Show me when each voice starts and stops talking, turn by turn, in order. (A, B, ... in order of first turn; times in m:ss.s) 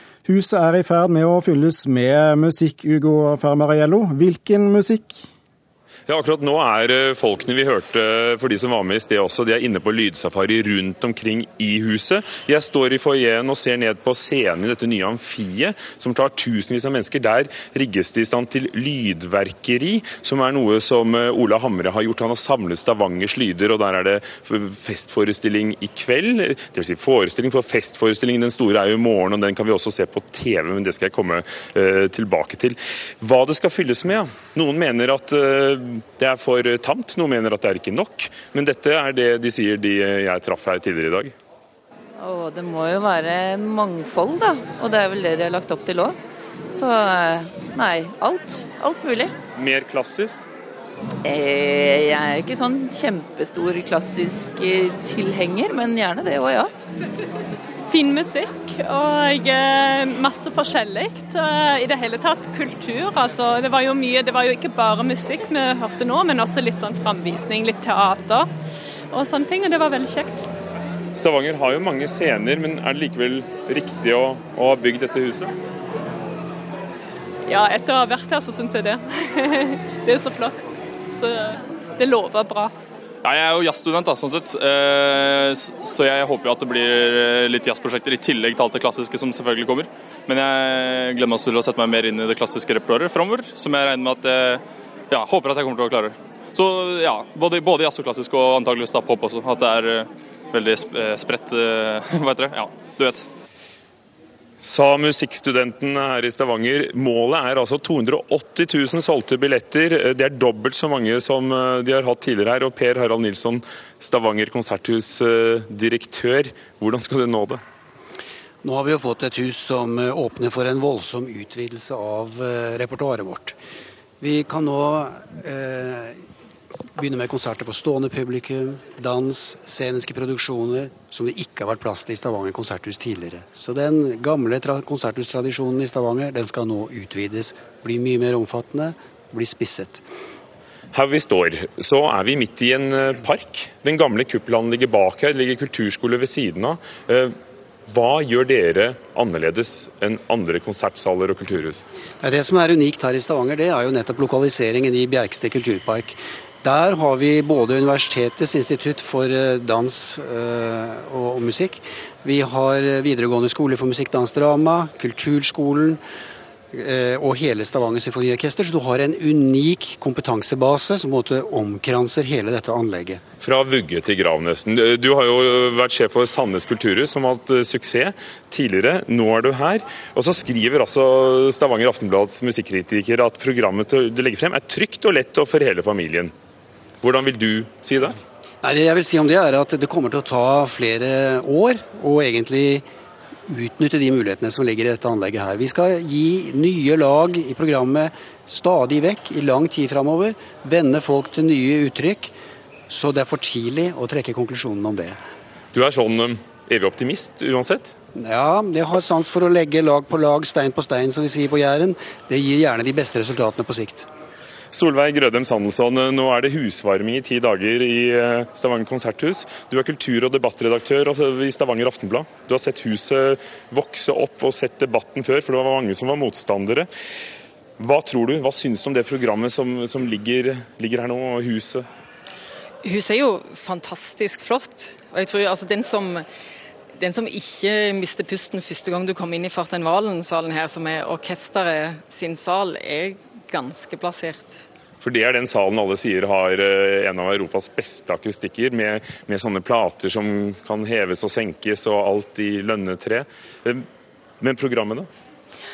0:00.2-0:05.2 A
0:06.1-0:41.3 B
0:42.2-0:46.2 C
0:46.7-0:49.3 C
0:49.6-0:50.4 B
0:51.2-0:56.7 C
0:57.9-1:08.5 D
1:09.1-1:10.4 D
1:11.1-1:15.5 B
1:17.5-1:20.6 D
1:21.1-1:22.7 D
1:23.2-1:43.3 E
1:44.6-1:57.6 B
1:58.6-2:03.6 F
2:04.2-2:06.2 F
2:06.9-2:20.0 F
2:20.9-2:27.3 B
2:27.9-2:31.8 B
2:32.2-2:46.0 F
2:46.7-2:53.2 F
2:53.4-3:06.3 B
3:07.0-3:08.2 B
3:08.6-3:12.8 F
3:13.5-3:22.3 F
3:22.9-3:25.2 F
3:25.7-3:27.9 B
3:28.2-3:34.1 F
3:34.7-3:46.9 B
3:47.8-3:51.8 B
3:52.8-3:56.2 G
3:57.0-4:04.6 G
4:05.0-4:13.8 B
4:14.4-4:15.1 B